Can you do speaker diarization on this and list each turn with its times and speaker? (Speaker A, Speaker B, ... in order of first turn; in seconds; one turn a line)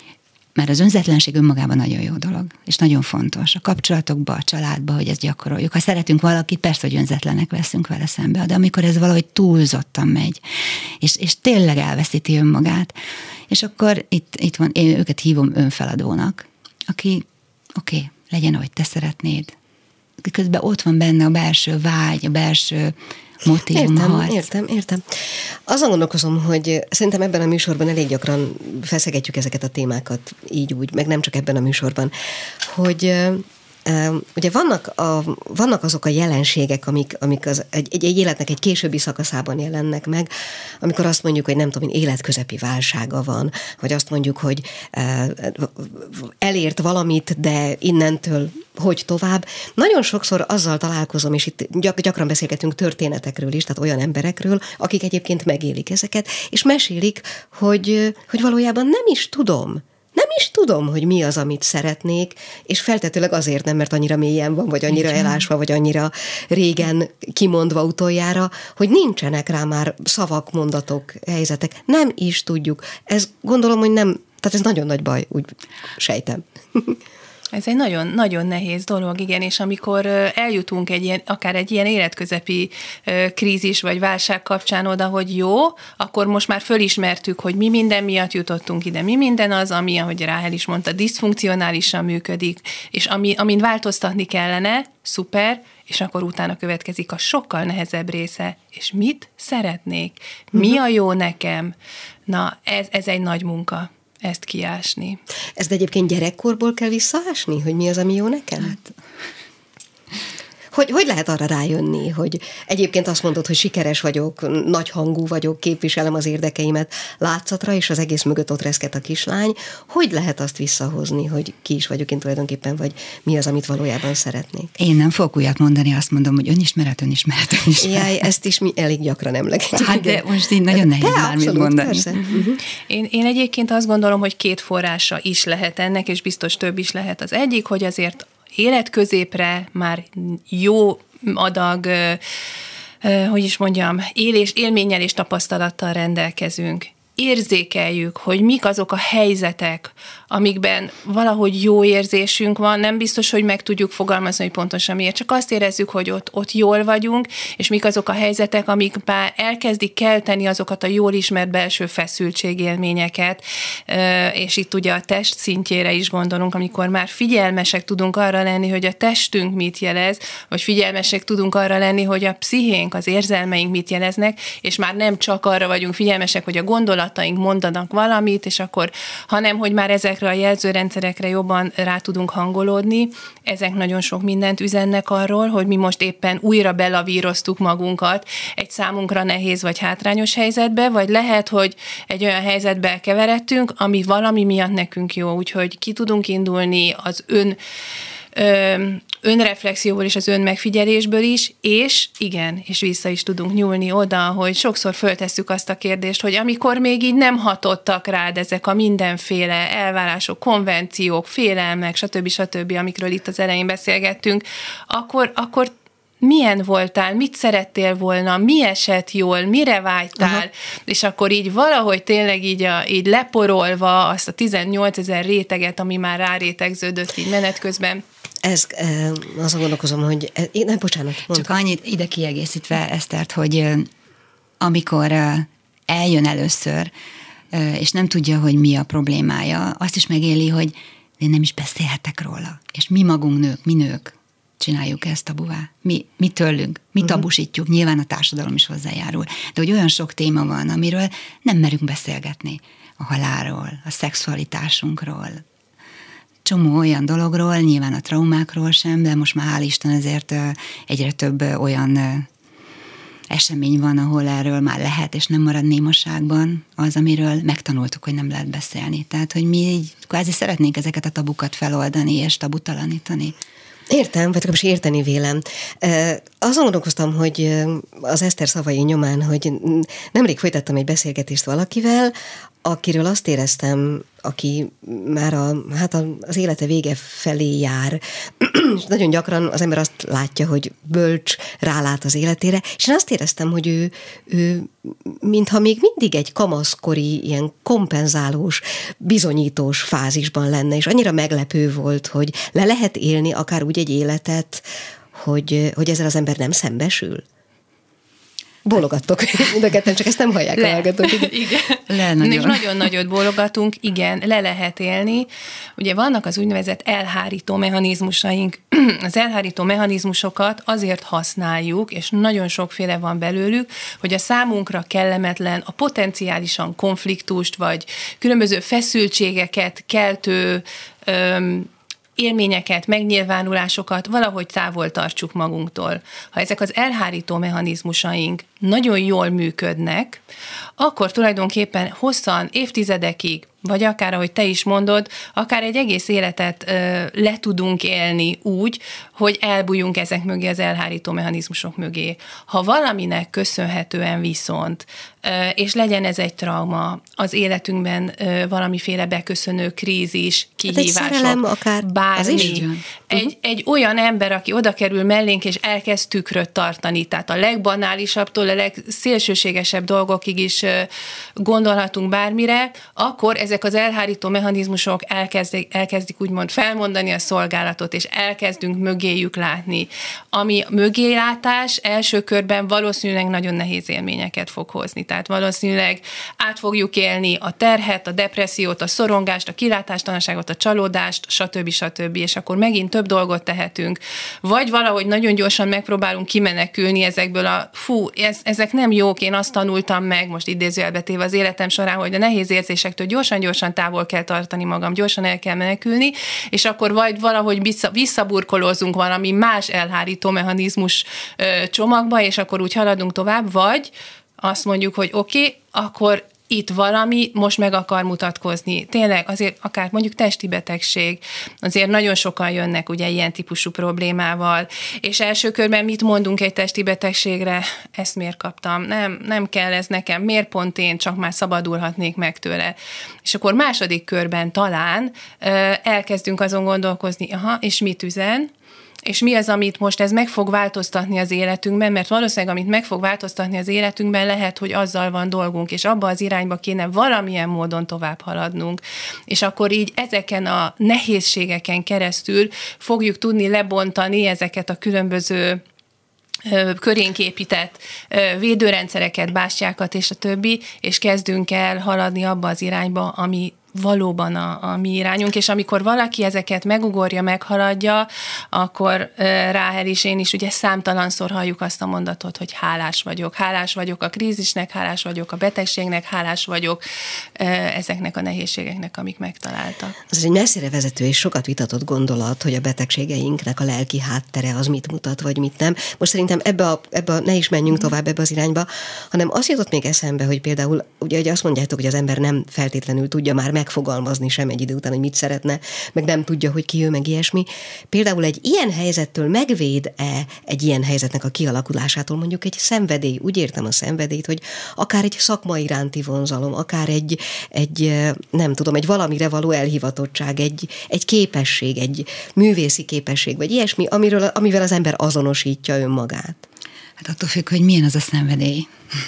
Speaker A: 0.6-10.4
Speaker A: 11.0-12.9
Speaker A: 13.5-17.2
Speaker A: 17.8-19.6
Speaker A: 20.2-24.4
Speaker B: 23.7-40.3
Speaker B: 40.8-77.0
Speaker C: 77.5-101.7
Speaker C: 102.3-105.2
Speaker B: 105.6-108.8
Speaker B: 110.7-124.7
Speaker A: 124.8-128.1
Speaker B: 127.8-132.6
Speaker A: 129.7-132.1
Speaker C: 132.4-142.2
Speaker C: 143.0-197.6
Speaker C: 198.3-228.0
Speaker B: 228.4-231.5
Speaker A: 231.3-233.9
Speaker A: 234.6-236.9
Speaker A: 237.5-255.4
Speaker A: 256.4-262.3
Speaker A: 263.3-273.3
Speaker B: 273.9-282.1
Speaker B: 282.6-307.2
Speaker B: 308.6-311.4
Speaker C: 310.6-340.2
Speaker A: 311.9-312.8
Speaker C: 340.8-438.5
Speaker B: 360.7-362.6
Speaker A: 362.4-362.8
Speaker C: 439.1-455.6
Speaker C: 456.4-476.8
Speaker C: 477.4-479.9
Speaker B: 480.1-516.5
Speaker A: 517.0-518.7